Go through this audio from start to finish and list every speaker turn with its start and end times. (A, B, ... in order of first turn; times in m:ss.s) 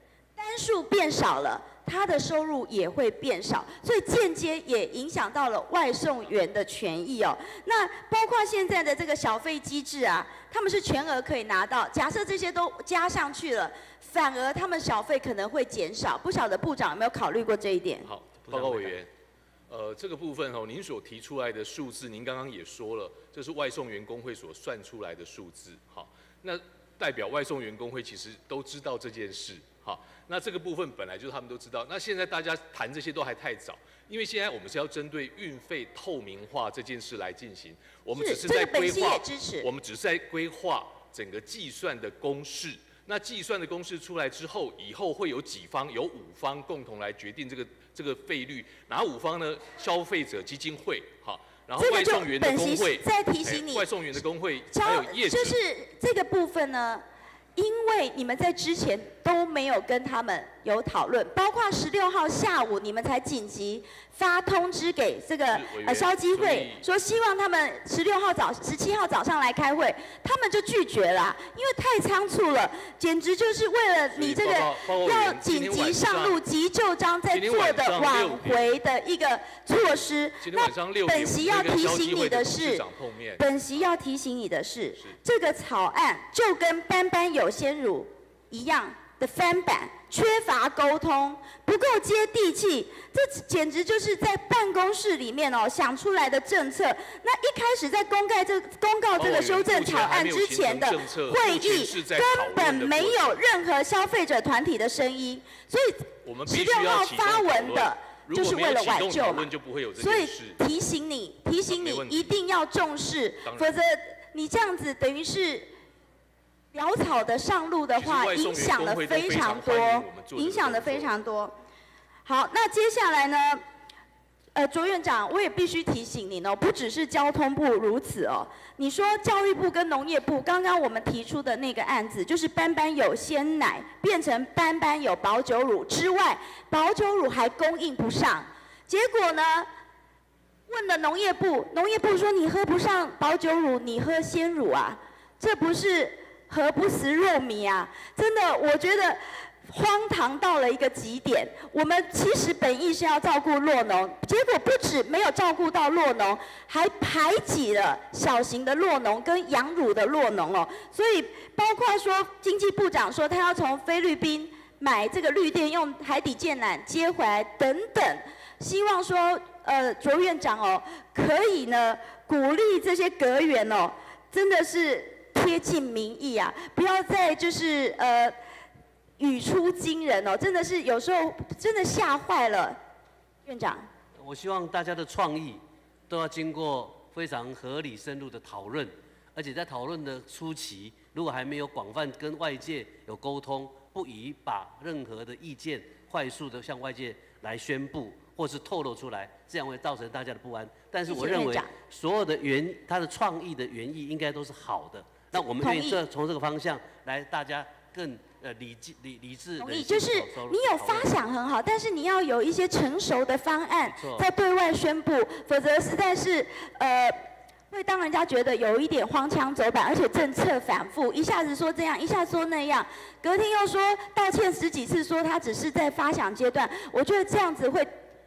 0:00.4-0:18.1 A
0:18.0-0:19.1 B
0:18.5-0:18.9 C
0:19.7-0:55.6 B
0:38.2-0:39.7 A
0:51.8-0:53.9 A
0:54.7-0:57.0 A
0:57.6-1:22.8 A
1:05.5-1:06.9 B
1:14.2-1:16.4 B
1:17.3-1:18.8 B
1:20.4-1:23.8 B
1:23.4-1:55.7 A
1:39.2-1:43.4 B
1:46.2-1:50.6 B
1:51.7-1:52.4 B
1:53.4-1:53.8 B
1:56.7-2:01.6 A
1:57.9-2:01.1 B
2:02.2-2:03.6 A
2:04.6-2:19.7 A
2:20.7-2:58.4 A
2:59.2-3:02.8 A
3:03.4-3:03.9 A
3:04.2-3:31.2 C
3:21.1-3:21.7 A
3:25.3-3:26.0 A
3:29.6-3:37.2 A
3:33.9-3:34.3 C
3:37.7-3:47.9 A